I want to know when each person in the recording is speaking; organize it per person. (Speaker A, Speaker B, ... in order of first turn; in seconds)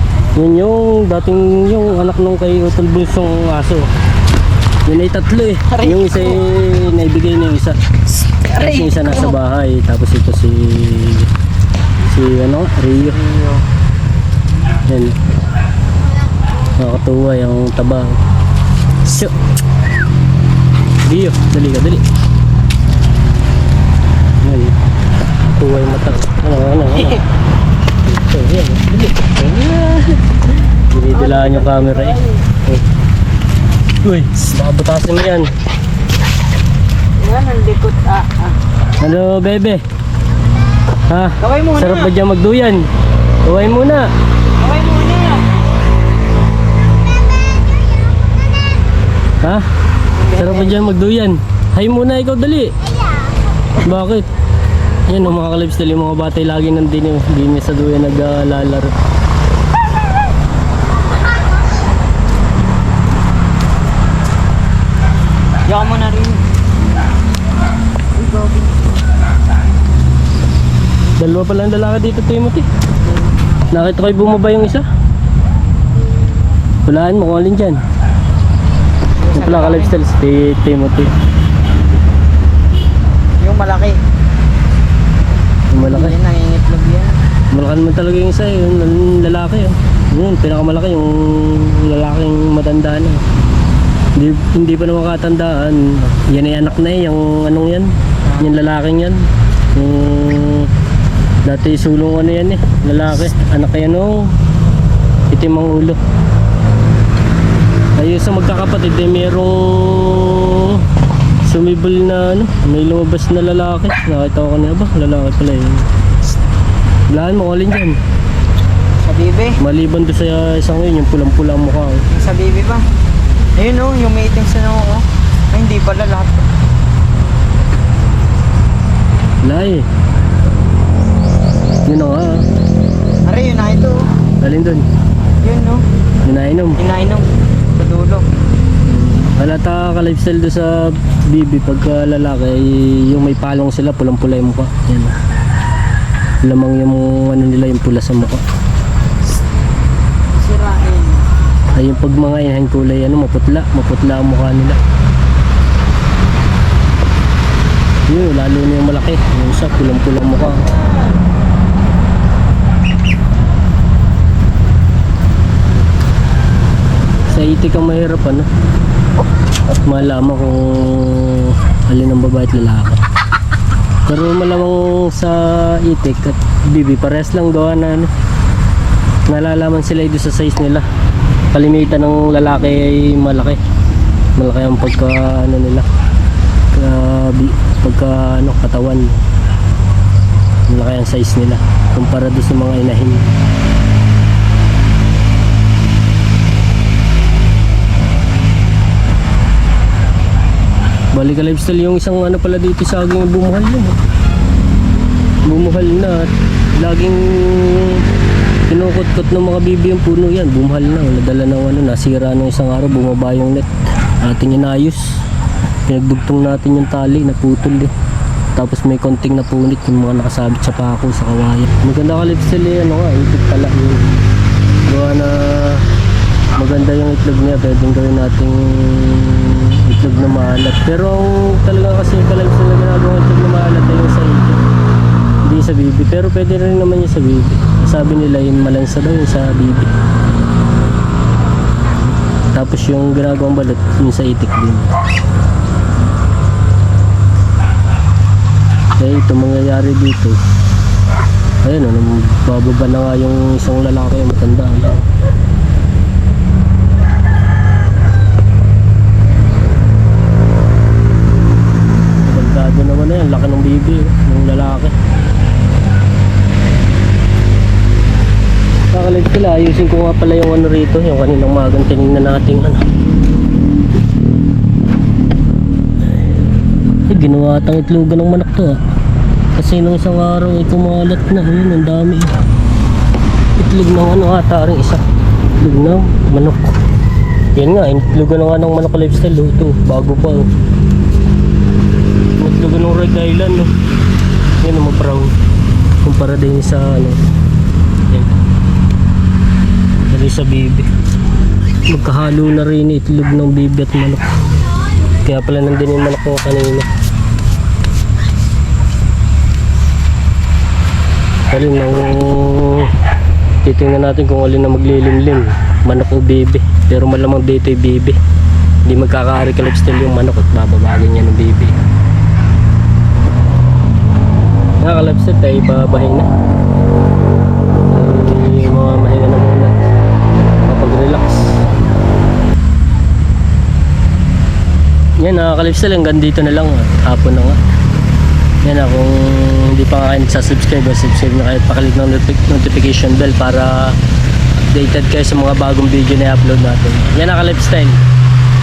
Speaker A: 0.4-3.9, 4.9-7.8, 8.5-11.3, 12.0-13.2, 14.9-15.2, 16.8-18.2, 19.0-19.4, 21.0-22.0, 24.4-24.8, 25.4-27.2, 28.0-30.2, 30.9-32.8, 34.0-35.5, 39.0-39.8, 41.1-42.9, 43.4-44.1, 50.4-52.7, 53.8-54.2, 55.1-58.9, 71.2-72.7, 73.7-74.8, 76.8-77.8, 79.3-81.1, 85.7-86.2, 87.5-93.2, 94.2-100.7, 101.4-104.3, 105.3-106.0, 108.0-110.8, 111.4-115.9, 117.1-118.0, 119.6-122.1, 129.4-129.9, 131.9-132.4, 134.4-134.9, 136.2-136.8, 138.8-145.1, 146.4-148.4, 151.8-154.8, 158.1-160.7, 167.3-168.5, 169.8-173.0, 174.1-178.1, 179.3-180.8, 181.5-183.6, 184.4-185.9, 186.7-189.2, 190.7-193.3, 201.1-204.0, 205.4-208.0, 208.7-215.2, 215.9-217.9, 218.5-224.0, 224.9-225.9, 226.6-234.7, 235.4-239.9, 242.5-244.9, 249.0-250.4, 251.6-255.1, 262.2-264.9, 268.9-272.8, 277.1-278.8, 279.5-282.3, 283.6-285.0, 285.6-286.7, 287.5-290.5, 292.4-293.7, 294.6-295.3, 296.0-297.2, 300.1-300.9, 301.9-304.3, 305.2-306.9, 311.5-312.9, 313.6-318.2, 318.9-321.8, 324.8-326.3, 327.9-329.8, 330.6-331.6, 335.2-337.6, 338.6-344.0, 344.6-348.0
Speaker B: 5.7-6.4, 8.4-9.1, 13.1-13.6, 31.1-32.4, 37.2-38.5, 41.4-42.1, 44.6-45.5, 50.2-50.8, 65.7-66.4, 79.2-80.0, 83.4-84.0, 85.8-87.2, 119.0-119.5, 122.1-122.8, 123.6-126.4, 133.2-134.0, 135.4-135.8, 136.8-138.3, 150.4-151.2